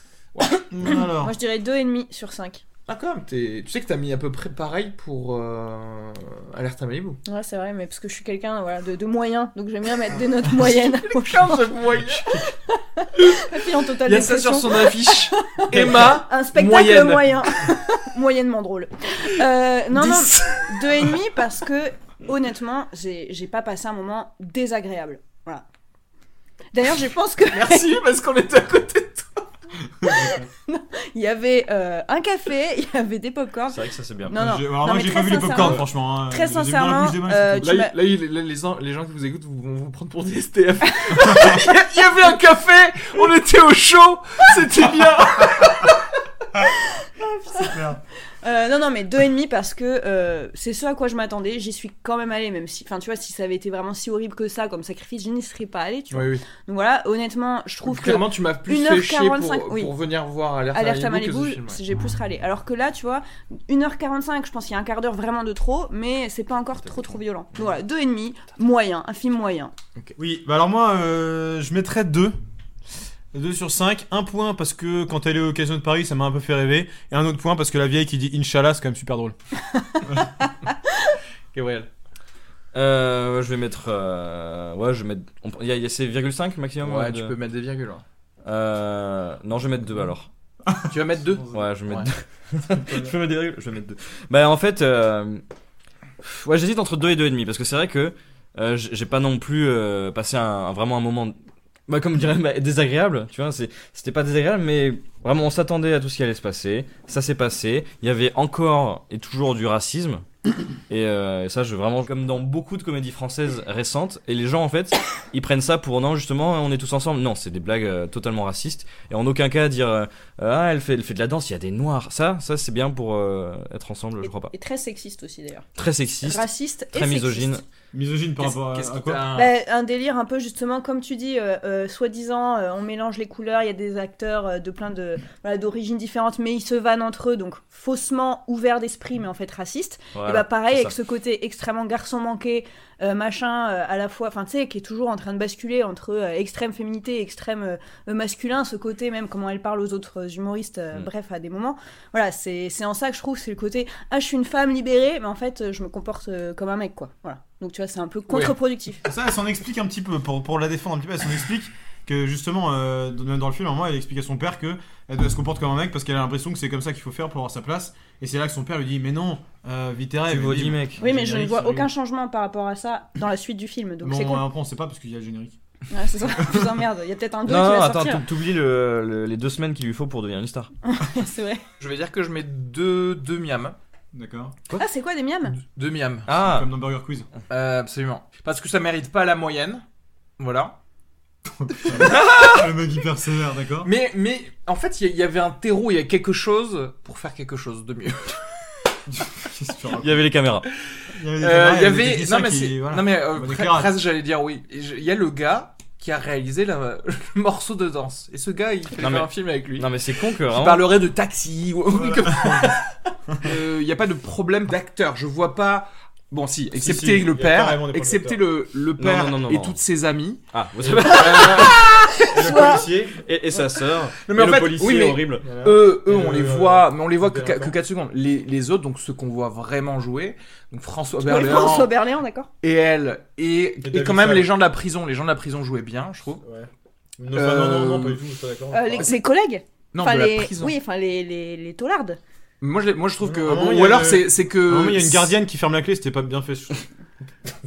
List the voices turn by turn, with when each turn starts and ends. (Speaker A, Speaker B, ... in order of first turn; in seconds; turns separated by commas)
Speaker A: 0.7-1.4, Speaker B: 0.8-2.6, Speaker C: 2.9-7.2, Speaker B: 7.2-25.6, Speaker C: 10.5-12.5, Speaker C: 13.1-17.5, Speaker A: 15.7-16.2, Speaker C: 19.9-20.8, Speaker B: 26.7-27.9, Speaker C: 27.5-29.4, Speaker A: 30.0-30.5, Speaker B: 30.1-37.9, Speaker D: 33.7-34.4, Speaker A: 34.3-37.7, Speaker D: 35.6-35.8, Speaker C: 37.6-45.9, Speaker B: 41.1-41.5, Speaker B: 47.2-47.8, Speaker A: 47.5-48.0, Speaker B: 48.4-59.9, Speaker C: 56.1-56.4, Speaker C: 57.9-61.8, Speaker B: 60.7-69.7, Speaker D: 66.8-67.2, Speaker A: 70.2-72.3, Speaker A: 73.3-79.3, Speaker B: 79.8-80.5, Speaker C: 81.5-81.9, Speaker D: 82.7-87.3, Speaker C: 86.8-88.0, Speaker D: 88.4-90.3, Speaker A: 90.7-91.7, Speaker C: 90.8-92.1, Speaker D: 91.5-95.4, Speaker A: 92.7-93.1, Speaker D: 96.2-110.2, Speaker D: 110.9-124.5, Speaker B: 124.2-125.7, Speaker D: 125.8-127.6, Speaker B: 126.2-127.6, Speaker A: 127.9-129.3, Speaker C: 128.4-129.5, Speaker B: 129.3-159.0, Speaker D: 140.1-140.9, Speaker C: 158.3-158.5, Speaker A: 159.0-171.9, Speaker D: 170.3-171.0, Speaker B: 171.0-174.4, Speaker A: 174.0-175.6, Speaker B: 175.9-178.2, Speaker A: 176.3-176.8, Speaker D: 177.4-180.7, Speaker B: 180.8-181.6, Speaker C: 181.8-183.8, Speaker A: 184.1-184.5, Speaker B: 184.8-185.6, Speaker C: 185.5-186.3, Speaker D: 186.3-186.7, Speaker A: 186.3-187.3, Speaker C: 187.5-189.8, Speaker C: 190.4-190.8, Speaker A: 191.4-193.9, Speaker C: 191.8-192.6, Speaker C: 193.8-198.4, Speaker A: 199.1-200.2, Speaker D: 199.9-200.7, Speaker A: 201.1-203.9, Speaker C: 201.4-212.8, Speaker D: 209.0-210.9, Speaker A: 211.9-213.5, Speaker C: 213.4-220.4, Speaker A: 216.7-218.4, Speaker D: 219.0-219.8, Speaker D: 220.5-221.8, Speaker A: 220.8-223.2, Speaker C: 220.9-221.9, Speaker B: 221.9-222.9, Speaker D: 223.2-225.4, Speaker C: 224.2-231.9, Speaker A: 225.4-227.8, Speaker B: 231.2-232.5, Speaker C: 232.6-236.4, Speaker A: 233.8-234.5, Speaker A: 236.4-239.1, Speaker C: 237.3-238.2, Speaker B: 238.7-242.2, Speaker C: 239.9-240.7, Speaker C: 242.6-245.3, Speaker A: 243.2-246.9